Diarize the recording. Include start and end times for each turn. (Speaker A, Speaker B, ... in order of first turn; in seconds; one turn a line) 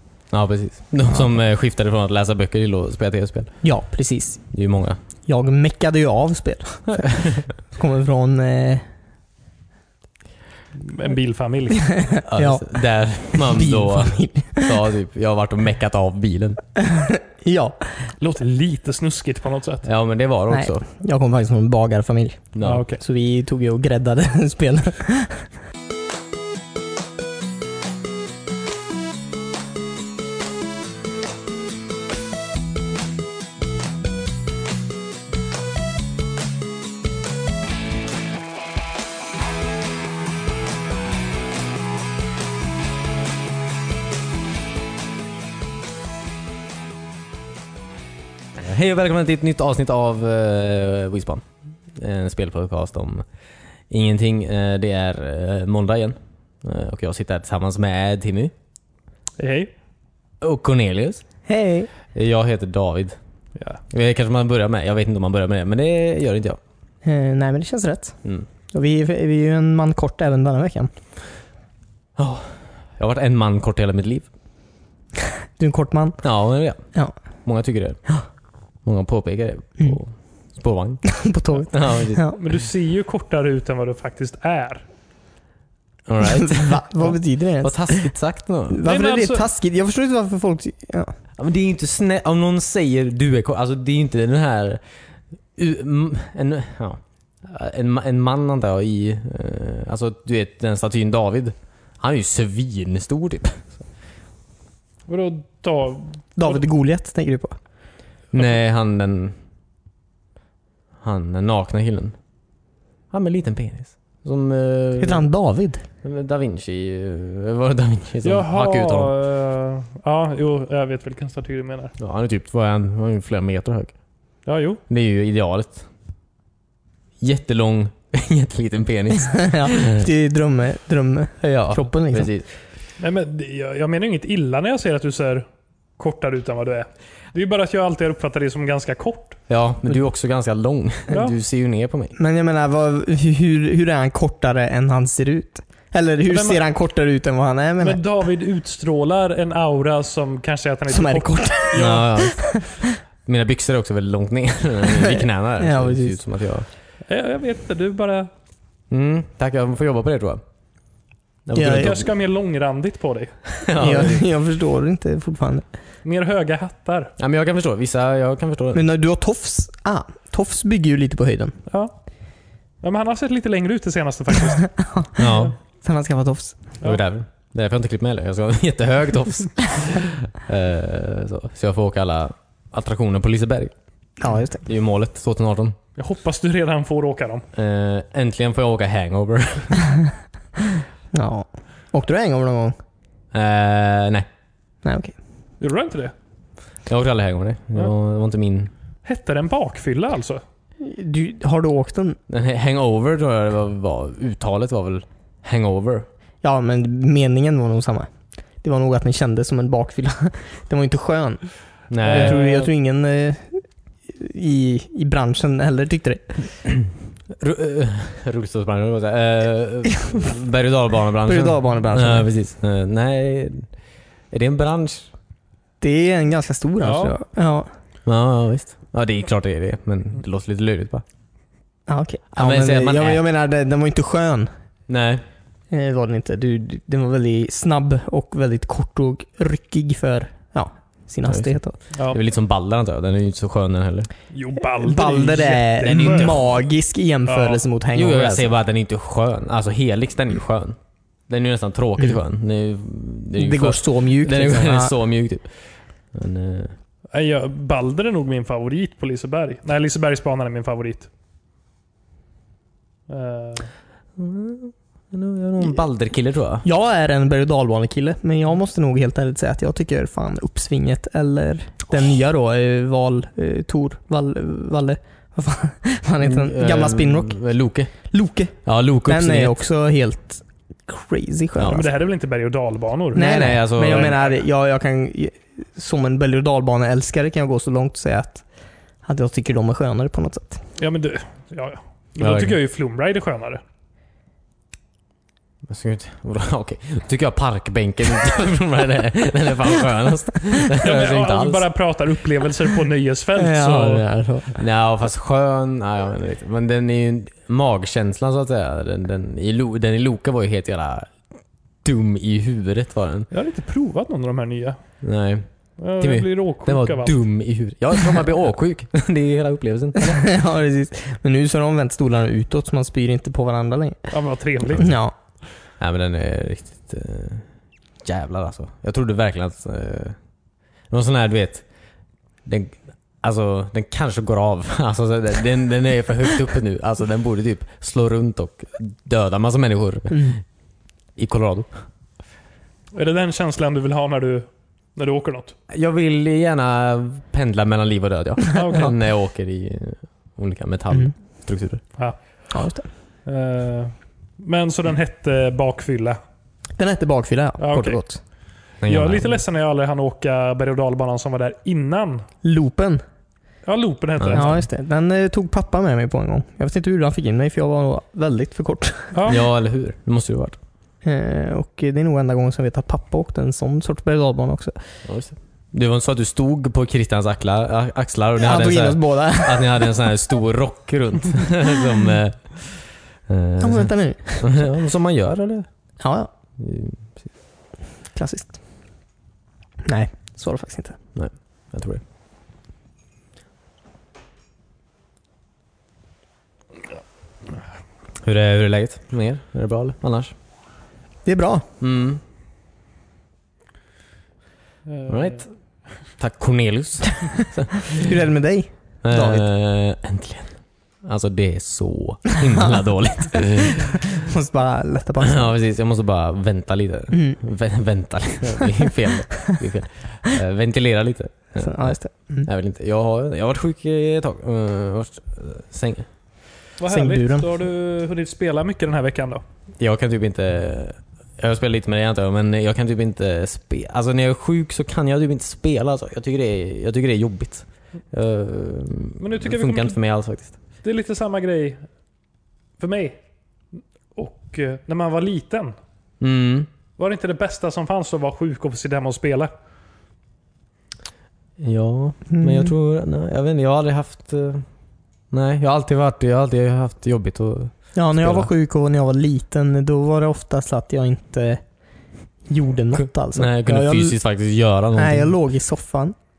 Speaker A: 0.3-3.5
Speaker B: 3.6-4.4
Speaker A: 4.5-5.0
Speaker B: 5.2-8.8
Speaker A: 6.9-7.5
Speaker C: 10.8-11.8
Speaker B: 11.8-12.7
Speaker A: 12.2-16.6
Speaker B: 13.3-14.9
Speaker B: 16.8-17.9
Speaker C: 18.2-19.9
Speaker A: 19.8-20.9
Speaker B: 20.5-25.5
Speaker A: 22.5-22.9
Speaker C: 22.6-23.0
Speaker A: 48.6-51.4
Speaker A: 52.0-53.2
Speaker A: 53.9-58.5
Speaker C: 59.4-59.7
Speaker A: 60.4-61.2
Speaker B: 61.5-61.9
Speaker A: 62.1-63.2
Speaker A: 63.9-66.6
Speaker B: 67.0-68.2
Speaker B: 68.7-70.9
Speaker A: 72.2-74.3
Speaker B: 75.6-76.2
Speaker A: 76.2-76.8
Speaker A: 77.4-78.0
Speaker A: 78.8-82.3
Speaker B: 81.1-82.4
Speaker C: 82.3-84.8
Speaker A: 86.1-87.1
Speaker B: 86.2-88.1
Speaker A: 87.6-88.9
Speaker B: 88.7-91.1
Speaker C: 88.8-89.5
Speaker A: 91.4-94.8
Speaker A: 95.6-103.8
Speaker C: 105.1-106.6
Speaker B: 106.4-107.6
Speaker A: 108.3-109.3
Speaker A: 111.0-112.2
Speaker A: 113.1-115.3
Speaker B: 115.0-115.8
Speaker A: 116.0-119.1
Speaker C: 118.2-121.9
Speaker A: 122.0-123.9
Speaker C: 124.5-124.8
Speaker A: 124.9-125.8
Speaker A: 127.2-130.1
Speaker B: 129.2-132.3
Speaker A: 131.4-132.5
Speaker C: 133.0-135.4
Speaker C: 136.0-139.4
Speaker A: 139.5-142.2
Speaker B: 142.2-148.0
Speaker C: 146.3-146.6
Speaker C: 147.8-152.1
Speaker B: 150.9-152.9
Speaker A: 151.8-152.6
Speaker A: 153.2-156.7
Speaker B: 154.9-156.2
Speaker C: 157.1-158.3
Speaker A: 158.9-160.4
Speaker A: 161.4-162.1
Speaker B: 161.6-162.0
Speaker C: 161.6-163.3
Speaker A: 163.6-164.2
Speaker B: 163.8-165.6
Speaker C: 166.1-167.1
Speaker A: 167.2-168.8
Speaker B: 168.7-171.6
Speaker C: 171.7-171.9
Speaker C: 172.8-174.7
Speaker B: 174.6-175.3
Speaker A: 175.2-175.5
Speaker B: 175.8-176.6
Speaker A: 176.8-183.7
Speaker B: 184.2-184.6
Speaker A: 184.6-185.8
Speaker C: 186.0-187.4
Speaker A: 187.6-189.9
Speaker B: 191.1-192.8
Speaker A: 193.3-194.3
Speaker B: 194.8-195.1
Speaker C: 195.6-196.1
Speaker A: 196.9-198.7
Speaker C: 199.1-200.4
Speaker B: 200.8-202.2
Speaker A: 202.3-206.1
Speaker B: 206.4-208.1
Speaker B: 208.6-211.4
Speaker A: 211.9-212.7
Speaker C: 212.0-212.6
Speaker B: 212.1-216.4
Speaker A: 217.4-223.7
Speaker B: 221.2-222.3
Speaker A: 224.3-225.1
Speaker B: 225.8-227.7
Speaker C: 226.8-227.2
Speaker A: 228.1-231.0
Speaker B: 231.9-234.5
Speaker A: 232.3-233.2
Speaker A: 234.9-235.2
Speaker B: 235.7-241.8
Speaker A: 241.3-241.6
Speaker A: 242.1-244.1
Speaker C: 244.3-246.4
Speaker B: 244.7-248.5
Speaker A: 245.8-246.4
Speaker C: 247.3-247.6
Speaker A: 247.9-250.8
Speaker A: 251.3-255.5
Speaker B: 253.4-254.9
Speaker A: 256.1-256.7
Speaker C: 257.1-261.1
Speaker C: 263.1-263.7
Speaker A: 264.2-266.6
Speaker B: 266.6-277.4
Speaker A: 276.2-277.9
Speaker B: 278.1-281.9
Speaker A: 278.6-279.6
Speaker C: 281.6-283.3
Speaker A: 283.1-284.1
Speaker B: 283.1-288.4
Speaker C: 283.8-284.3
Speaker B: 289.0-290.6
Speaker C: 290.8-293.6
Speaker A: 292.2-292.6
Speaker A: 295.7-301.6
Speaker C: 300.8-304.0
Speaker B: 303.4-304.6
Speaker A: 304.6-311.1
Speaker A: 311.8-313.3
Speaker C: 313.3-314.8
Speaker A: 315.0-315.4
Speaker C: 315.8-317.1
Speaker A: 316.0-320.2
Speaker B: 319.9-324.1
Speaker C: 324.1-324.9
Speaker B: 324.7-325.1
Speaker A: 325.8-327.4
Speaker A: 328.0-330.1
Speaker A: 330.9-331.6
Speaker A: 332.4-340.4
Speaker B: 340.1-340.4
Speaker A: 341.2-341.7
Speaker C: 342.9-345.6
Speaker A: 345.7-351.8
Speaker C: 348.5-348.9
Speaker B: 352.5-352.9
Speaker C: 353.3-356.2
Speaker B: 356.8-358.2
Speaker C: 357.6-358.0
Speaker A: 358.8-359.4
Speaker C: 358.9-362.3
Speaker B: 362.4-363.0
Speaker C: 363.7-364.6
Speaker A: 364.2-364.5
Speaker B: 364.3-369.2
Speaker C: 369.1-369.4
Speaker A: 369.3-370.6
Speaker B: 371.0-374.8
Speaker A: 375.1-385.7
Speaker B: 378.4-380.1
Speaker B: 383.6-384.6
Speaker B: 386.0-386.3
Speaker A: 386.6-387.1
Speaker B: 388.1-388.6
Speaker B: 389.8-391.0
Speaker A: 391.1-392.0
Speaker A: 398.2-400.3
Speaker B: 401.2-401.7
Speaker A: 401.8-402.2
Speaker C: 404.9-405.5
Speaker A: 405.1-405.5
Speaker A: 406.2-408.1
Speaker B: 407.2-409.5
Speaker A: 409.0-414.0
Speaker B: 413.3-415.5
Speaker A: 415.2-426.1
Speaker B: 417.1-417.4
Speaker B: 418.6-419.5
Speaker B: 421.6-422.5
Speaker C: 426.8-429.4
Speaker B: 426.9-427.5
Speaker A: 429.8-440.5
Speaker C: 439.2-440.0
Speaker C: 440.8-441.8
Speaker C: 442.8-443.2
Speaker C: 443.8-445.8
Speaker A: 446.2-446.7
Speaker C: 447.0-449.5
Speaker A: 451.6-454.6
Speaker B: 452.3-452.7
Speaker A: 455.3-458.5
Speaker B: 457.9-461.6
Speaker B: 462.5-464.2
Speaker A: 462.9-465.4
Speaker B: 464.9-466.2